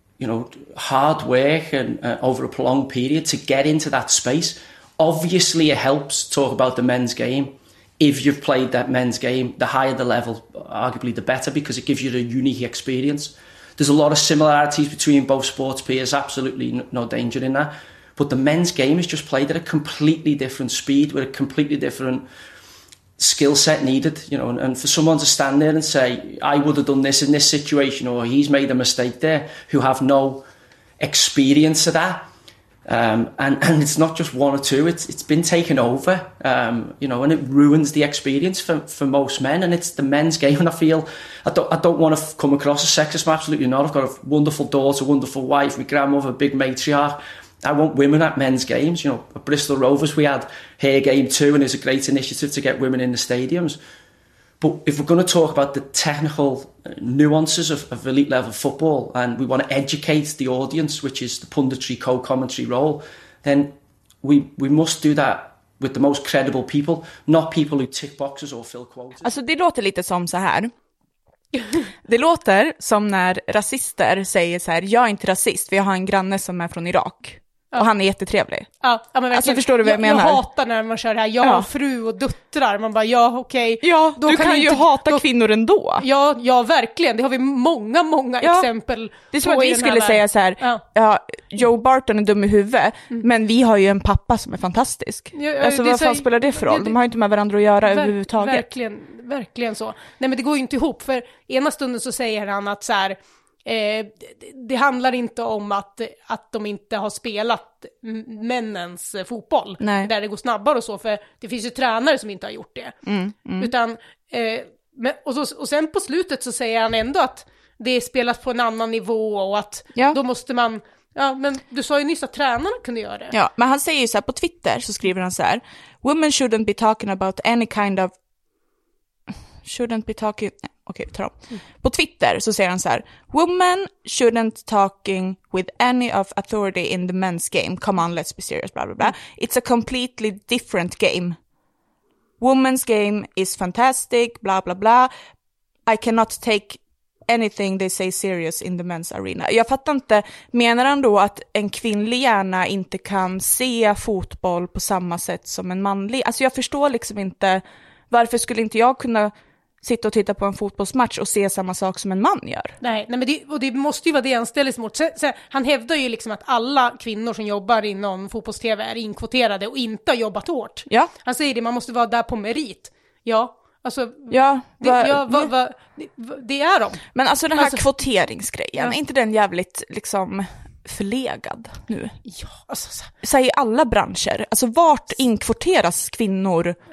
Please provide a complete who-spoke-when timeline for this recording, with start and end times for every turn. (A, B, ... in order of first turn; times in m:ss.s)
0:00.2-0:22.2 A
0:23.2-0:30.4 A
0:31.0-0:32.3 A
0:32.8-0:53.8 A
0:54.6-1:09.3 A
1:09.2-1:10.7 B
1:12.0-1:18.7 B
1:18.8-1:25.2 C
1:19.3-1:20.4 B
1:21.4-1:21.7 B
1:23.8-1:26.0 B
1:26.0-1:30.8 C
1:28.4-1:28.7 B
1:29.3-1:38.6 B
1:35.3-1:37.0 C
1:37.8-1:53.0 C
1:49.8-1:50.1 B
1:53.0-1:53.7 B
1:53.6-2:03.3 C
2:03.3-2:08.1 B
2:09.6-2:21.4 B
2:22.4-2:25.1 B
2:25.8-2:42.7 B
2:42.8-2:57.0 C
2:54.3-2:55.5 B
2:57.1-3:02.1 B
2:57.6-2:57.8 C
3:02.2-3:03.1 C
3:03.2-3:06.8 B